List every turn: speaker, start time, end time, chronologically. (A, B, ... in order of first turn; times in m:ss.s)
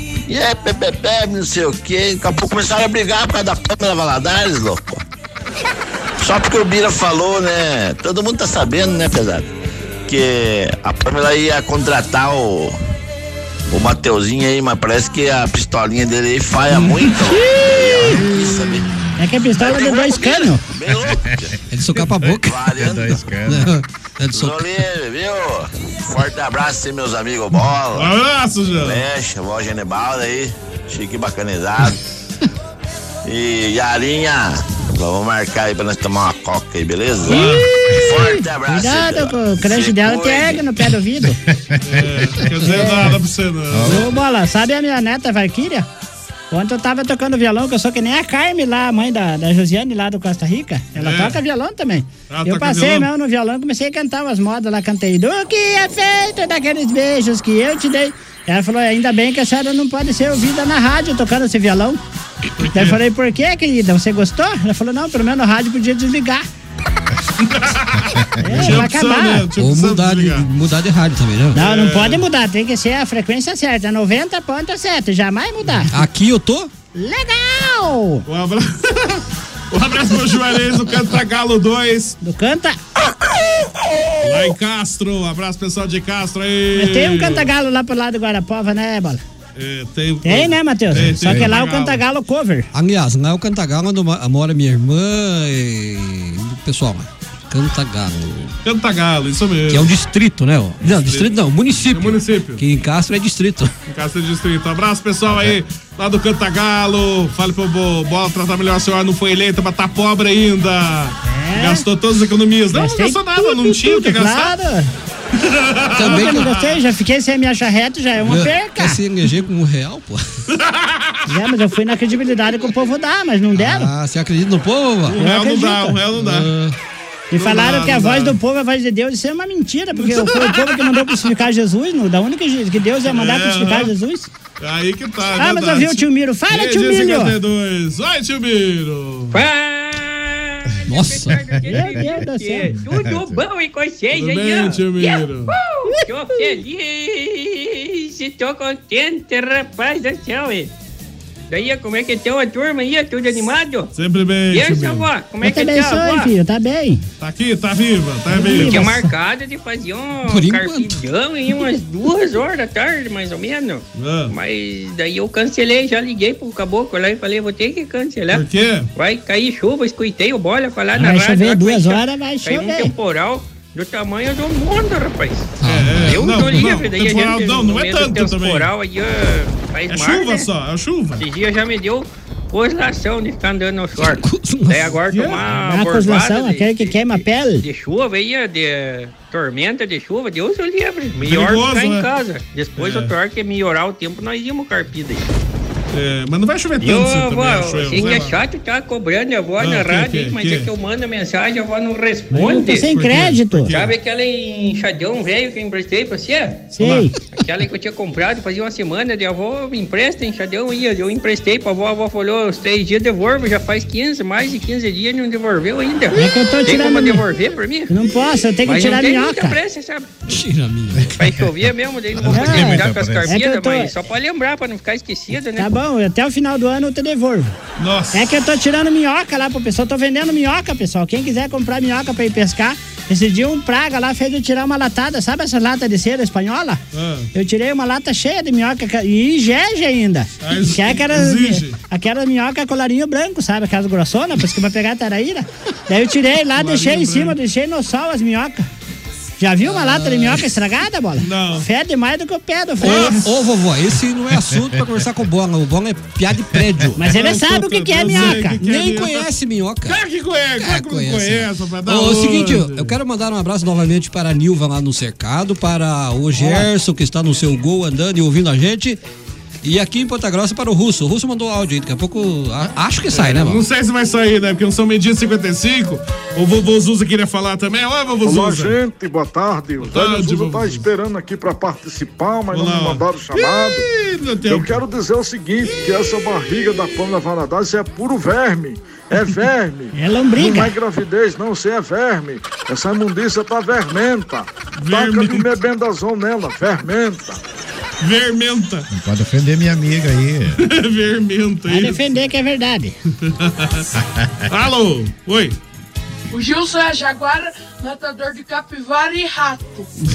0:00.3-0:05.0 A
0:06.2-0:09.5 A
0:10.1-0:12.8 A
0:13.7-0:18.9 A
0:16.7-0:17.2 B
0:17.4-0:18.1 C
0:18.1-0:18.8 D
0:19.2-0:20.6 C
0:19.6-0:21.4 A
0:21.0-0:21.5 D
0:21.7-0:24.6 E
0:22.2-0:23.8 D
0:22.4-0:23.1 A
0:24.3-0:28.1 A
0:27.9-0:29.0 B
0:28.8-0:32.0 A
0:33.2-0:37.4 A
0:37.3-0:41.4 C
0:37.3-0:37.7 B
0:38.0-0:40.6 A
0:41.2-0:43.1 D
0:41.8-0:44.1 B
0:42.8-0:43.1 C
0:43.7-0:44.1 D
0:43.8-0:45.9 C
0:46.5-1:02.0 C
0:51.0-0:51.4 B
0:52.3-0:53.1 B
1:02.6-1:03.0 B
1:02.7-1:06.4 C
1:07.4-1:10.5 B
1:08.2-1:08.7 D
1:08.4-1:09.5 C
1:09.6-1:11.6 E
1:11.6-1:15.9 C
1:11.6-1:12.2 B
1:15.9-1:16.7 E
1:16.9-1:18.2 C
1:18.3-1:22.2 B
1:22.2-1:22.8 C
1:24.2-1:27.5 B
1:26.8-1:29.2 C
1:29.6-1:32.0 B
1:30.2-1:32.7 C
1:30.9-1:31.5 D
1:32.7-1:38.5 E
1:38.6-1:39.9 B
1:39.7-1:43.7 E
1:40.8-1:41.3 B
1:41.9-1:42.6 B
1:43.9-1:54.5 B
1:51.3-1:51.8 C
1:52.7-1:54.9 C
1:55.4-1:56.8 B
1:56.0-1:56.6 E
1:56.0-1:59.0 C
1:58.2-2:00.2 E
2:00.5-2:01.2 B
2:01.3-2:03.9 C
2:03.6-2:05.2 E
2:05.1-2:06.5 B
2:05.1-2:06.0 C
2:06.2-2:06.8 E
2:07.3-2:14.3 C
2:07.4-2:08.4 B
2:10.0-2:11.2 B
2:13.1-2:13.9 B
2:14.6-2:19.4 B
2:15.4-2:17.4 C
2:19.3-2:30.7 F
2:20.9-2:21.4 E
2:21.5-2:22.1 D
2:21.7-2:22.8 C
2:22.8-2:23.4 D
2:24.1-2:25.6 B
2:25.9-2:26.6 C
2:31.5-2:33.9 F
2:34.0-2:35.0 B
2:34.5-2:36.3 F
2:35.4-2:37.0 C
2:37.2-2:38.9 B
2:38.3-2:39.1 C
2:38.6-2:48.4 F
2:40.2-2:41.0 E
2:44.0-2:44.3 B
2:48.3-2:48.9 B
2:49.0-3:00.5 F
2:51.0-2:52.9 C
2:55.6-2:56.2 E
2:55.6-2:58.7 B
2:59.9-3:01.2 B
3:01.2-3:15.3 F
3:04.0-3:05.0 E
3:05.1-3:05.6 B
3:05.6-3:07.6 C
3:11.2-3:12.1 B
3:12.8-3:13.1 B
3:15.9-3:18.4 B
3:16.8-3:22.9 F
3:19.6-3:20.7 B
3:22.3-3:23.8 C
3:22.7-3:24.0 B
3:23.7-3:26.7 F
3:26.8-3:27.2 C
3:26.8-3:27.1 B
3:27.4-3:37.9 F
3:36.1-3:37.2 C
3:37.9-3:39.6 C
3:38.6-3:40.1 F
3:40.3-3:41.2 E
3:41.0-3:41.2 D
3:41.2-3:45.7 F
3:42.1-3:43.4 D
3:42.3-3:43.9 C
3:45.6-3:47.6 C
3:47.8-3:48.3 B
3:48.1-3:56.8 C
3:56.9-3:57.3 B
3:57.3-4:08.7 C
4:00.4-4:01.8 B
4:06.5-4:07.4 B
4:09.4-4:13.2 C
4:09.7-4:10.4 E
4:11.2-4:11.7 B
4:12.8-4:17.1 E
4:12.8-4:13.2 B
4:14.5-4:14.8 D
4:17.0-4:18.6 C
4:17.0-4:19.3 B
4:18.1-4:20.0 E
4:19.8-4:23.0 B
4:20.6-4:29.0 E
4:26.4-4:26.7 B
4:29.6-4:33.6 E
4:33.1-4:38.8 B
4:38.3-4:43.9 G
4:39.9-4:40.8 B
4:42.5-4:44.8 B
4:44.5-4:57.4 G
4:50.0-4:50.7 C
4:54.8-4:55.5 B
4:58.0-4:58.9 B
4:58.9-5:00.6 D
5:00.6-5:02.0 B
5:01.7-5:03.0 C
5:03.2-5:03.9 B
5:04.0-5:04.5 D
5:04.5-5:05.6 B
5:06.3-5:09.9 H